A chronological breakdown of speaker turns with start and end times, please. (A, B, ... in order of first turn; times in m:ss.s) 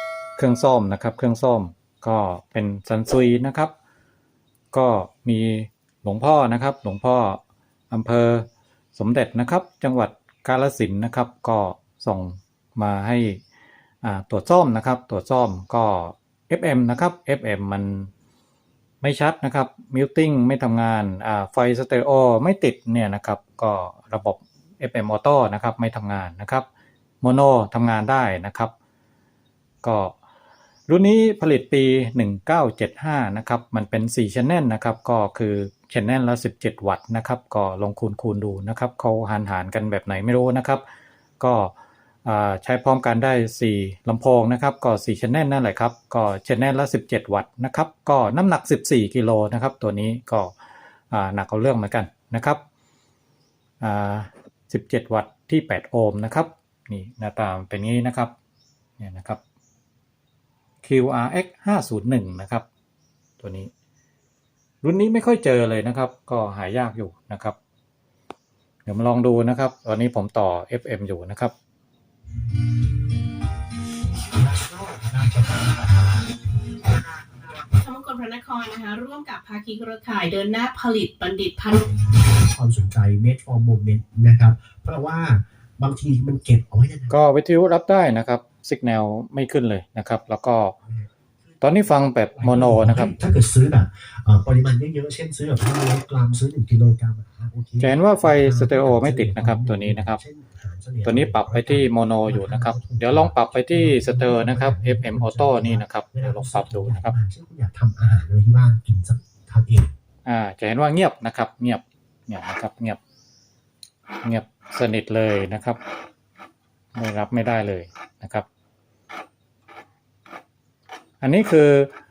0:00.4-0:03.7 A
0:04.7-0:13.4 A
0:14.0-0:18.1 A
0:19.0-0:26.6 A
0:27.2-0:28.7 A
0:29.8-0:30.1 A
0:30.9-0:40.8 A
0:41.4-0:41.7 A
0:42.2-0:50.5 A
0:51.1-0:52.6 A
0:53.8-0:58.3 A
0:59.0-0:59.4 A
1:00.8-1:02.6 A
1:03.4-1:03.7 A
1:04.8-1:07.6 A
1:08.8-1:11.5 A
1:14.3-1:16.2 B
1:17.8-1:21.9 C
1:22.1-1:27.1 B
1:27.1-1:30.7 A
1:30.9-1:31.6 B
1:31.6-1:33.1 A
1:32.4-1:49.9 B
1:37.8-1:40.2 A
1:41.0-1:47.1 A
1:50.2-1:53.0 A
1:54.2-1:55.8 A
1:56.9-1:58.4 A
2:01.2-2:01.9 A